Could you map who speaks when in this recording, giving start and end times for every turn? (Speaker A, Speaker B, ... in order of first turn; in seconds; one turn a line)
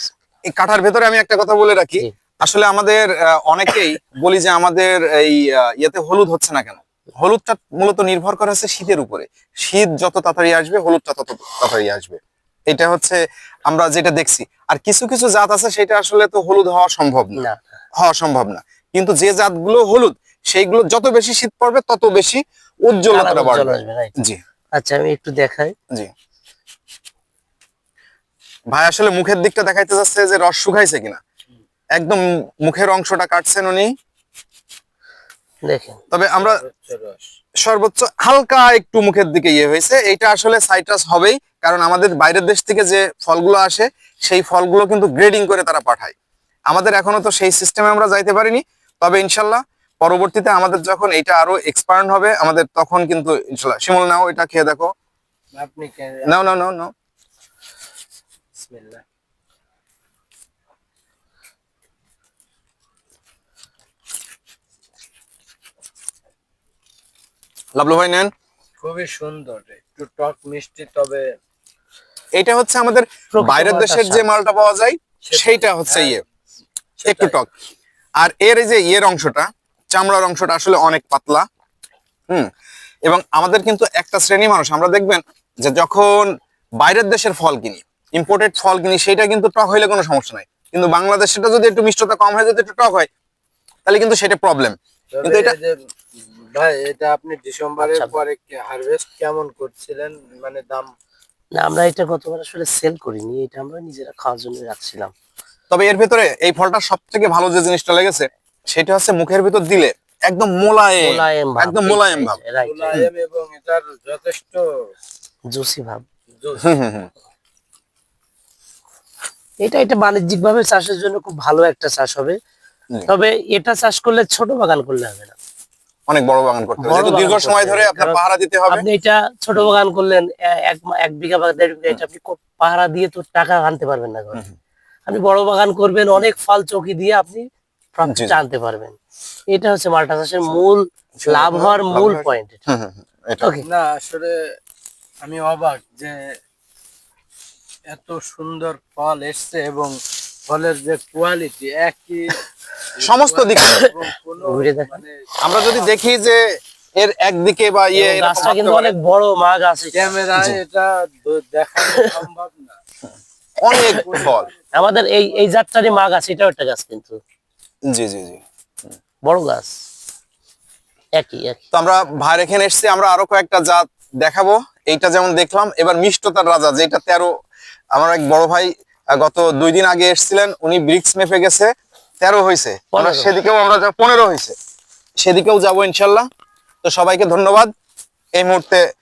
Speaker A: 0.5-17.4
Speaker A: 18.0-24.4
Speaker B: 23.1-24.1
Speaker B: 24.8-25.7
Speaker A: 28.7-31.2
Speaker A: 31.9-33.9
Speaker B: 35.6-36.0
Speaker A: 36.1-36.6
Speaker C: 36.3-37.3
Speaker A: 37.6-46.1
Speaker A: 46.7-54.9
Speaker C: 55.5-56.4
Speaker A: 56.3-56.9
Speaker C: 58.6-59.0
Speaker A: 67.8-68.3
Speaker C: 68.8-71.3
Speaker A: 72.3-76.2
Speaker B: 73.3-74.2
Speaker C: 75.2-76.2
Speaker C: 77.0-77.4
Speaker A: 77.0-77.5
Speaker A: 78.2-81.4
Speaker A: 83.0-86.3
Speaker A: 86.8-93.1
Speaker A: 93.8-95.5
Speaker C: 95.1-95.8
Speaker C: 96.3-100.9
Speaker B: 97.8-98.2
Speaker B: 101.6-105.1
Speaker A: 105.7-112.4
Speaker B: 111.0-113.0
Speaker C: 112.6-114.6
Speaker B: 115.5-116.0
Speaker A: 116.6-117.1
Speaker B: 119.6-122.3
Speaker B: 123.1-125.3
Speaker A: 126.1-128.8
Speaker B: 126.8-128.2
Speaker B: 128.7-134.4
Speaker B: 135.1-137.4
Speaker B: 137.9-138.9
Speaker A: 138.1-138.4
Speaker B: 139.5-142.6
Speaker A: 141.2-143.5
Speaker B: 143.4-143.7
Speaker C: 143.6-144.3
Speaker C: 145.2-146.3
Speaker C: 147.9-150.0
Speaker C: 150.5-152.4
Speaker C: 153.0-155.1
Speaker A: 153.0-153.9
Speaker B: 154.4-155.0
Speaker A: 155.4-156.4
Speaker A: 157.0-158.9
Speaker B: 157.9-160.1
Speaker C: 159.9-162.8
Speaker B: 161.8-162.2
Speaker A: 163.6-164.5
Speaker B: 163.7-167.2
Speaker C: 163.9-164.7
Speaker A: 167.9-168.4
Speaker B: 169.2-169.7
Speaker B: 171.2-171.6
Speaker A: 171.7-177.3
Speaker A: 177.9-184.5
Speaker B: 182.9-183.3
Speaker A: 185.2-186.3
Speaker A: 186.8-187.7
Speaker A: 188.4-188.8